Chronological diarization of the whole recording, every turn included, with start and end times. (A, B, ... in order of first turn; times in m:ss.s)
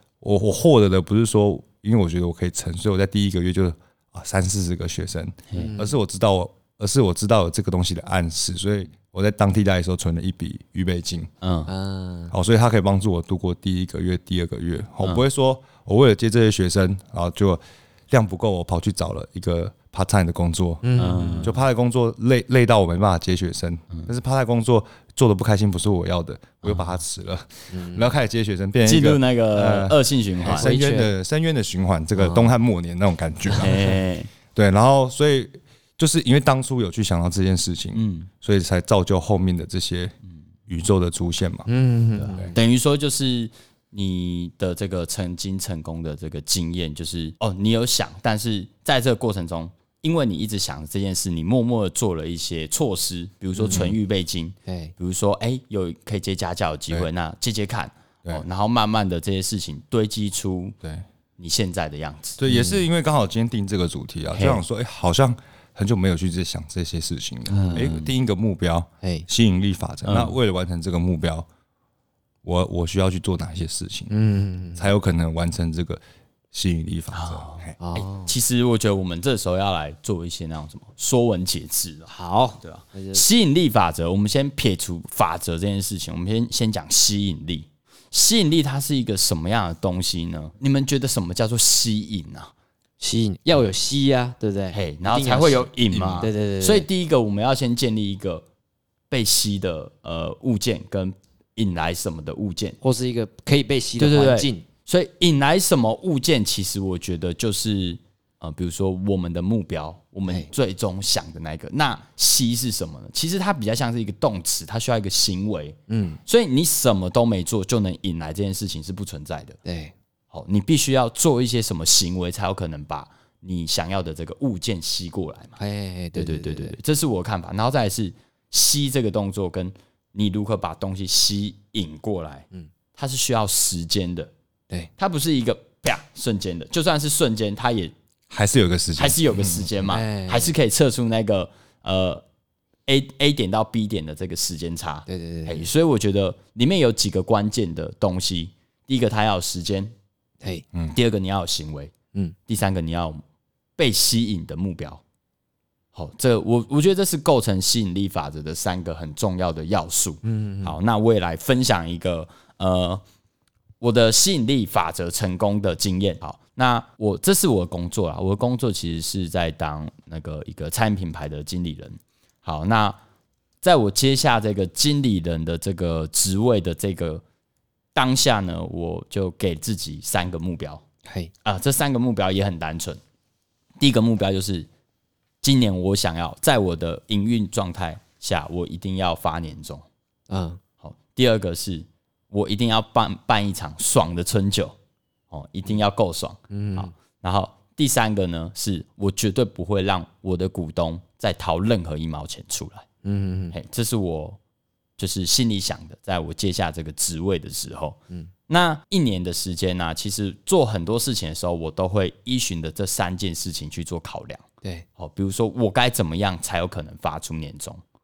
0:00.2-0:11.3 A
0:05.5-0:06.0 B
0:11.4-0:11.7 C
0:11.7-0:12.3 B
0:12.3-0:34.0 A
0:20.8-0:21.6 B
0:21.0-0:21.6 C
0:26.6-0:26.9 C
0:27.7-0:28.1 B
0:28.8-0:30.7 C
0:30.4-0:31.1 B
0:32.2-0:32.5 B
0:33.6-0:34.3 C
0:34.5-0:40.1 A
0:37.9-0:38.3 C
0:40.7-0:41.7 A
0:41.7-0:42.5 B
0:42.2-1:00.8 C
0:53.6-0:53.9 B
0:54.7-0:54.9 B
1:01.4-1:02.4 C
1:02.4-1:11.5 A
1:02.5-1:02.8 B
1:04.4-1:04.6 C
1:07.5-1:08.0 B
1:07.6-1:08.0 C
1:09.0-1:09.3 B
1:10.0-1:10.4 C
1:12.4-1:14.1 A
1:14.1-1:14.9 B
1:14.8-1:16.0 A
1:16.5-1:17.8 A
1:17.1-1:32.5 C
1:17.8-1:18.3 B
1:22.1-1:23.2 B
1:33.0-1:36.9 B
1:34.7-1:38.4 C
1:35.9-1:36.2 A
1:39.1-1:42.8 C
1:42.8-1:44.6 B
1:44.0-1:59.6 C
1:55.9-1:56.2 B
1:59.6-1:59.9 B
2:00.3-2:05.6 C
2:05.6-2:06.8 B
2:06.2-2:14.3 C
2:15.0-2:17.9 C
2:18.3-2:19.7 A
2:19.0-2:22.2 C
2:19.8-2:20.5 B
2:22.9-2:29.9 C
2:25.1-2:25.7 B
2:30.9-2:31.9 C
2:32.5-2:33.2 C
2:33.8-2:35.0 C
2:35.9-2:43.0 C
2:40.2-2:40.8 B
2:43.8-2:53.0 C
2:53.6-2:57.2 C
2:58.0-3:00.8 C
3:01.1-3:01.3 B
3:01.4-3:03.0 C
3:03.8-3:04.7 C
3:05.4-3:09.9 C
3:10.3-3:10.6 B
3:10.8-3:14.8 C
3:15.3-3:22.9 C
3:16.5-3:16.9 B
3:23.0-3:23.6 B
3:23.5-3:24.4 C
3:25.0-3:34.4 C
3:35.0-3:37.8 C